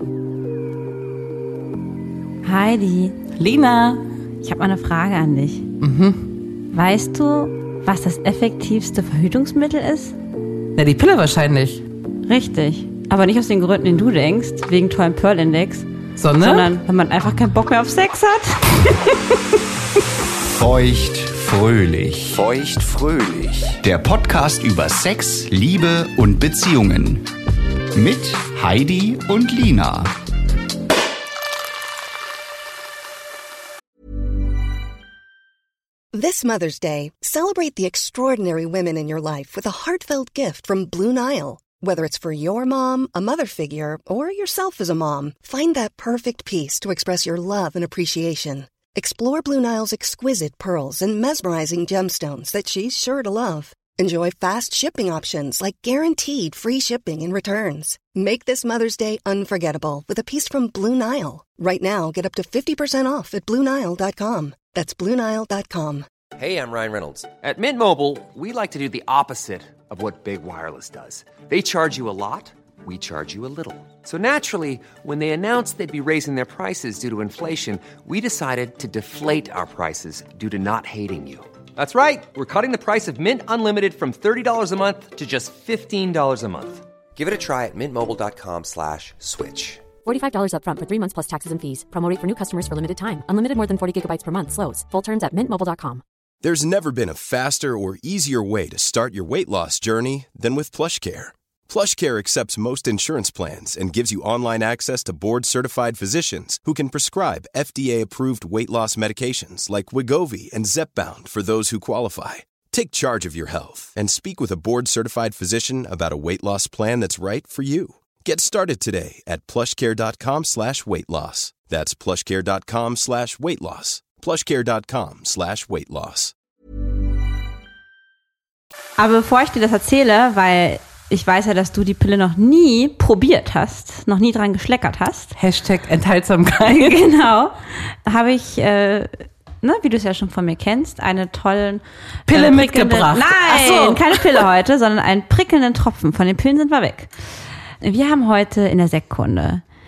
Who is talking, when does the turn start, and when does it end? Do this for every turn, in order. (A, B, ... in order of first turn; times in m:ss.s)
0:02.4-0:03.2 A
0:03.4-0:04.0 B
0:04.4-0:05.6 A
0:05.8-0:06.3 B
0:06.7-0:10.1 A
0:10.8-0:11.8 B
0:12.3-0:15.9 A
0:16.2-0:16.7 B
0:16.4-0:19.0 A
0:20.5-0:27.3 C
0:27.9-0:30.1 C
0:36.1-1:06.0 D
1:06.4-1:29.9 E
1:30.0-1:36.0 F
1:36.4-2:06.3 G
2:09.0-2:15.3 A
2:15.4-2:17.1 B
2:16.7-2:27.1 A
2:22.3-2:24.4 B
2:27.8-2:29.6 A